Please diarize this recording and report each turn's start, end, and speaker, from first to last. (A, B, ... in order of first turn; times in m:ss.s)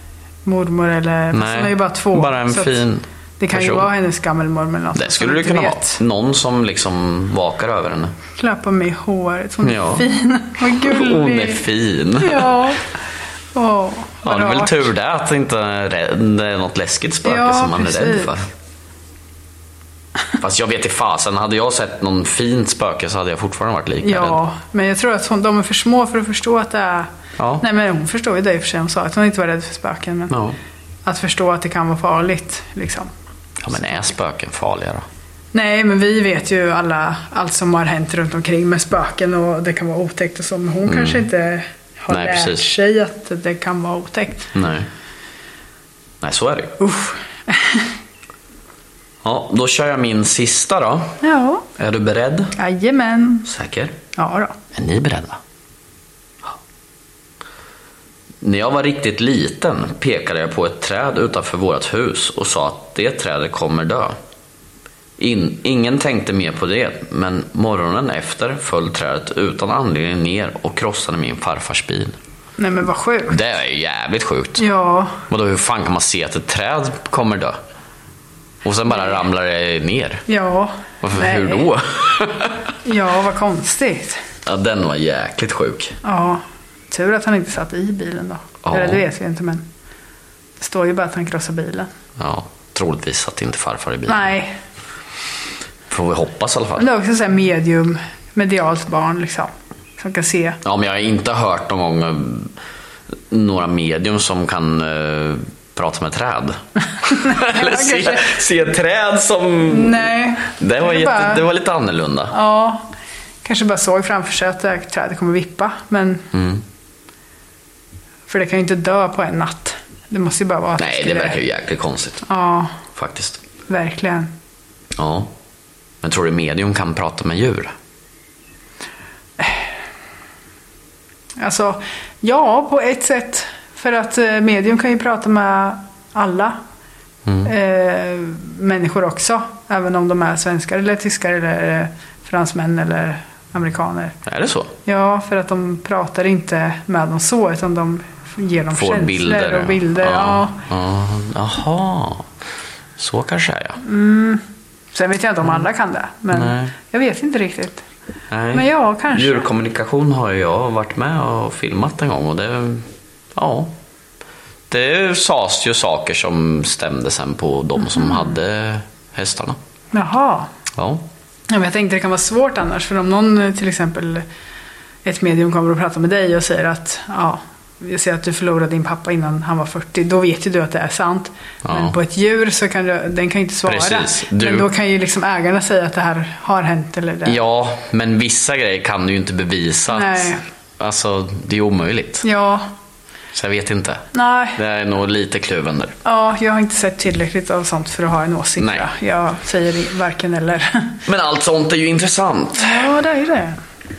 0:00.4-0:02.8 A
0:01.3-0:03.9 B
0:03.4-0:06.0 A
0:04.9-0:08.1 B
0:08.4-0:11.6 A
0:09.6-0:10.1 B
0:10.7-0:12.6 B
0:12.2-0:12.8 A
0:13.5-0:14.9 A
0:14.2-0:18.5 B
0:17.2-0:18.3 A
0:20.4-0:24.4 B
0:24.0-0:27.1 A
0:27.4-0:27.6 B
0:27.6-0:30.3 A
0:30.3-0:30.6 B
0:31.0-0:33.1 A
0:33.6-0:35.0 B
0:33.7-0:34.0 A
0:35.5-0:44.5 A
0:40.9-0:41.3 B
0:42.1-0:42.7 B
0:44.5-0:44.9 B
0:46.2-0:46.7 B
0:46.8-0:47.9 A
0:49.2-0:51.2 B
0:51.2-0:51.6 A
0:51.8-0:52.5 B
0:52.6-0:53.4 A
0:53.4-0:54.0 B
0:54.2-0:54.6 A
0:54.7-0:55.4 B
0:58.4-1:04.2 B
1:05.2-1:12.2 B
1:12.6-1:13.4 A
1:13.3-1:14.6 B
1:14.6-1:15.2 A
1:15.3-1:17.6 B
1:18.6-1:20.2 B
1:18.9-1:19.2 A
1:20.3-1:21.7 A
1:21.0-1:22.6 B
1:22.8-1:24.2 A
1:24.4-1:26.0 B
1:26.0-1:29.6 A
1:28.6-1:29.0 B
1:30.6-1:31.9 A
1:32.2-1:34.3 B
1:34.1-1:34.6 A
1:35.9-1:36.9 B
1:36.8-1:40.6 A
1:40.6-1:42.5 B
1:43.3-1:52.3 B
1:47.1-1:48.4 A
1:49.7-1:51.4 A
1:52.3-1:52.9 A
1:53.4-1:56.2 A
1:56.3-1:56.6 B
1:58.3-2:01.4 A
2:00.8-2:02.2 B
2:02.2-2:02.7 A
2:02.9-2:03.4 B
2:03.7-2:04.3 A
2:05.0-2:05.3 B
2:06.0-2:07.7 B
2:09.4-2:09.7 A
2:11.4-2:16.6 A
2:17.2-2:17.5 B
2:17.4-2:24.1 A
2:24.2-2:24.7 B
2:24.8-2:30.6 A
2:28.7-2:32.3 B
2:33.0-2:33.8 B
2:33.8-2:34.4 A
2:34.9-2:37.8 A
2:36.3-2:36.7 B
2:38.3-2:43.7 B
2:38.5-2:39.4 A
2:44.7-2:49.6 B
2:47.8-2:48.3 A
2:49.9-2:50.5 A
2:50.8-2:51.0 B
2:51.5-2:54.2 A
2:55.0-3:07.4 A
3:01.6-3:02.0 B
3:03.6-3:04.7 B
3:07.2-3:12.2 B
3:09.9-3:10.4 A
3:12.2-3:12.7 A
3:13.3-3:15.9 B
3:14.1-3:14.6 A
3:16.0-3:21.0 A
3:18.6-3:18.9 B
3:21.1-3:22.9 B
3:22.6-3:23.6 A